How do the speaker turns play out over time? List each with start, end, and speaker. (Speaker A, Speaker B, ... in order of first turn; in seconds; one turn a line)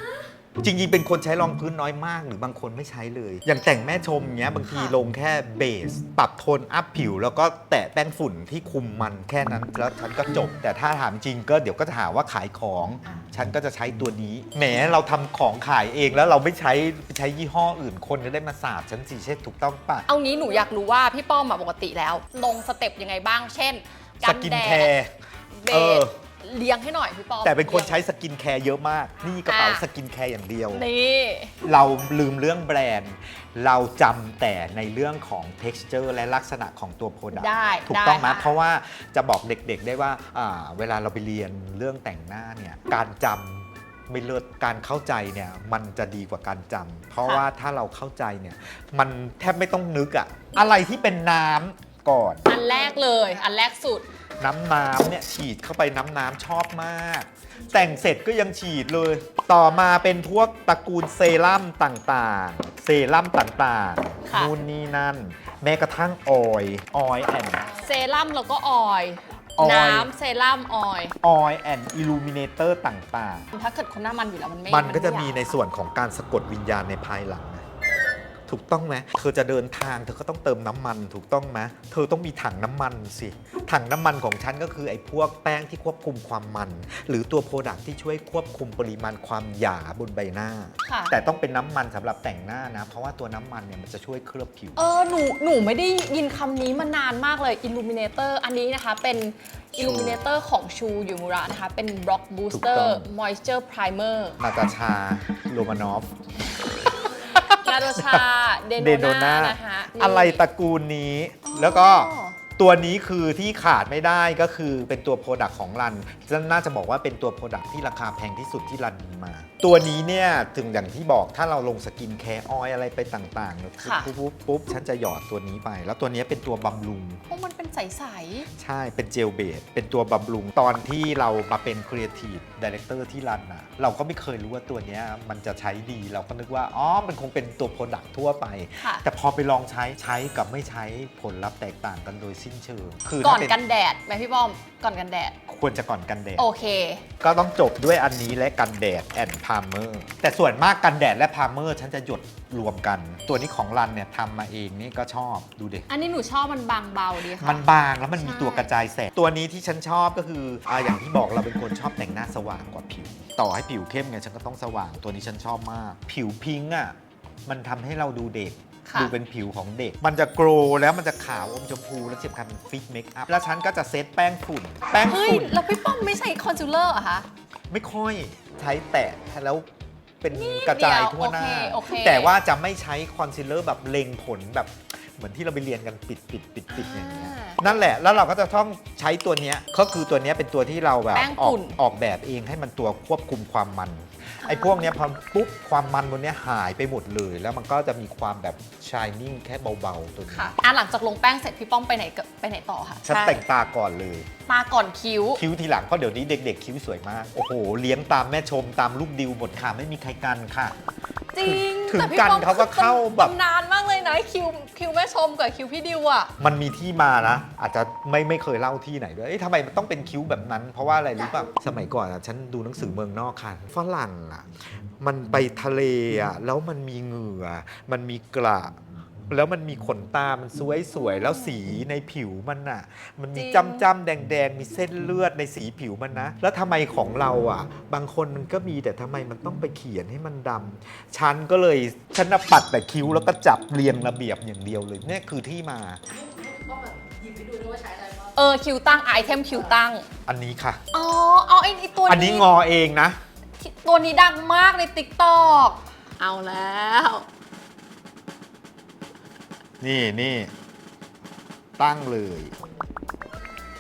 Speaker A: 0.6-20.1
Speaker B: 4.7-5.0
Speaker B: 20.1-24.9
Speaker A: 24.2-25.1
Speaker B: 25.6-28.0
Speaker A: 25.7-26.1
Speaker A: 27.4-30.9
Speaker B: 29.5-29.8
Speaker B: 30.7-31.5
Speaker A: 31.6-52.5
Speaker B: 37.3-38.6
Speaker B: 52.5-54.1
Speaker C: 52.5-53.3
Speaker A: 54.4-67.7
Speaker B: 64.3-64.5
Speaker B: 67.7-71.2
Speaker A: 69.6-70.1
Speaker A: 71.2-73.5
Speaker B: 73.5-75.6
Speaker A: 74.7-77.7
Speaker A: 78.5-94.8
Speaker B: 90.9-91.1
Speaker B: 94.8-104.4
Speaker A: 99.8-100.2
Speaker A: 102.5-103.1
Speaker A: 104.4-106.1
Speaker A: 106.9-108.3
Speaker B: 107.3-110.4
Speaker A: 108.8-127.2
Speaker B: 111.5-112.4
Speaker B: 123.8-124.1
Speaker B: 127.3-128.5
Speaker A: 128.6-143.6
Speaker B: 143.2-145.4
Speaker A: 145.5-146.5
Speaker B: 146.4-147.0
Speaker A: 147.2-155.9
Speaker B: 155.9-157.7
Speaker A: 157.4-166.9
Speaker B: 158.2-158.7
Speaker A: 167.5-175.6
Speaker B: 168.9-169.1
Speaker B: 175.0-177.3
Speaker A: 177.7-179.7
Speaker A: 180.2-200.5
Speaker B: 180.3-182.3
Speaker B: 186.7-187.8
Speaker B: 191.1-191.8
Speaker B: 194.4-194.9
Speaker B: 200.3-203.4
Speaker A: 203.0-204.3
Speaker B: 204.5-205.4
Speaker A: 205.4-210.8
Speaker B: 211.3-216.3
Speaker A: 211.4-213.3
Speaker A: 216.4-224.5
Speaker A: 225.0-228.8
Speaker A: 229.3-246.0
Speaker B: 231.0-231.6
Speaker B: 233.3-233.9
Speaker C: 246.1-248.4
Speaker B: 248.4-250.1
Speaker C: 248.9-249.8
Speaker A: 250.3-250.8
Speaker B: 250.9-252.5
Speaker A: 252.1-253.2
Speaker B: 253.6-257.3
Speaker A: 259.8-260.5
Speaker A: 261.8-262.6